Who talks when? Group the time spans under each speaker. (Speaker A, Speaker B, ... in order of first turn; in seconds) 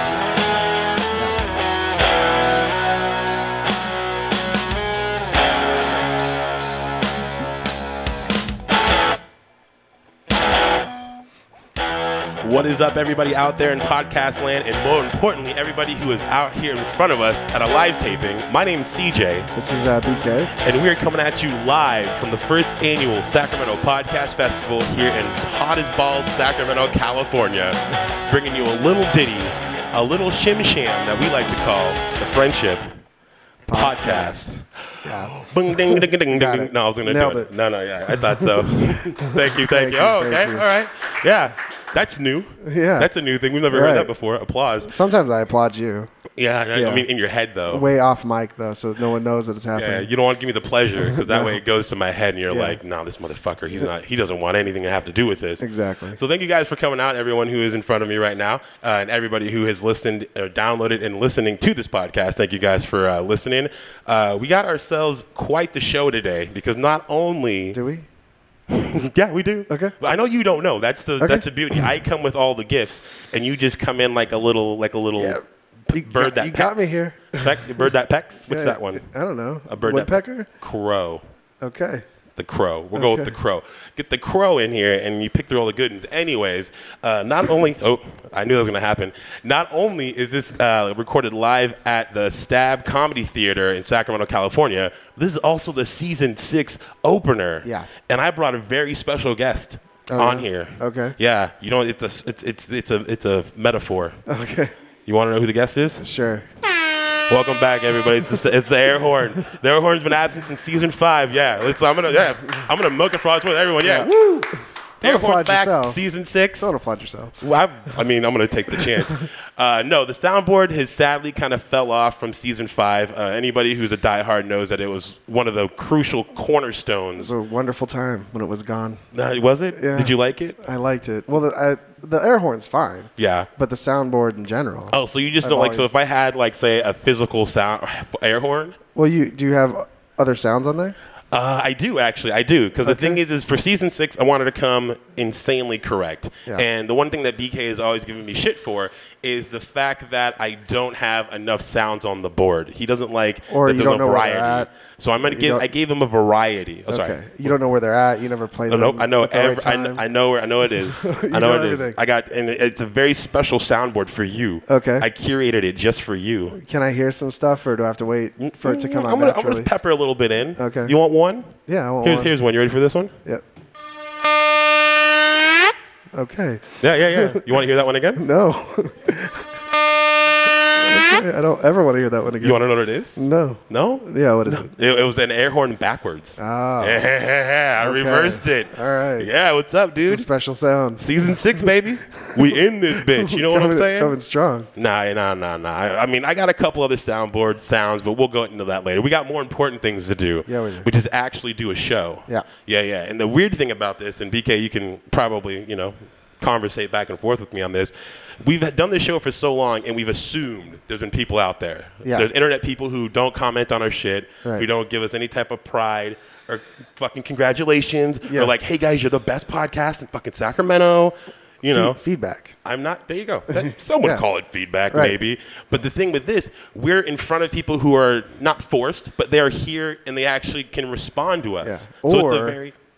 Speaker A: 1.1-1.4, 19.5-20.5, 33.7-37.5, 38.1-40.7, 42.6-43.1, 43.7-44.1, 44.8-46.1, 46.7-47.1, 47.7-50.1, 51.0-51.6, 52.5-52.8, 55.6-56.2, 67.7-68.1, 69.7-70.0, 71.2-71.8, 75.2-75.4, 75.9-77.8, 78.5-80.5, 81.6-82.0, 83.0-83.3, 97.6-97.9, 100.1-101.2, 104.3-104.7, 106.0-106.5, 113.8-114.1, 115.0-116.0, 116.6-117.4, 118.8-119.1, 127.2-129.0, 129.7-135.9, 138.9-141.0, 142.8-143.2, 153.5-154.7, 155.2-155.7, 156.9-160.0, 160.8-162.0, 164.7-165.1, 166.5-169.7, 170.6-170.9, 171.7-172.3, 176.1-177.4, 178.2-179.6, 180.8-182.6, 183.2-184.7, 186.4-187.0, 187.8-189.3, 190.1-191.7, 192.3-194.7, 200.5-200.9, 212.0-212.3, 218.2-218.5, 221.6-222.6, 223.5-224.2, 224.9-225.2, 231.6-232.6
Speaker B: 12.4-19.5, 20.6-32.9, 33.7-44.9, 46.4-47.9, 49.8-55.6, 56.1-67.8, 68.7-79.0, 79.7-81.2, 82.4-104.2, 105.1-106.0, 107.3-116.7, 117.4-127.3, 129.1-130.6, 133.2-133.5, 134.9-138.8, 141.3-157.6, 158.7-166.6, 168.4-173.1, 176.8-178.2, 182.4-190.3, 191.0-194.2, 194.8-222.0, 222.6-232.7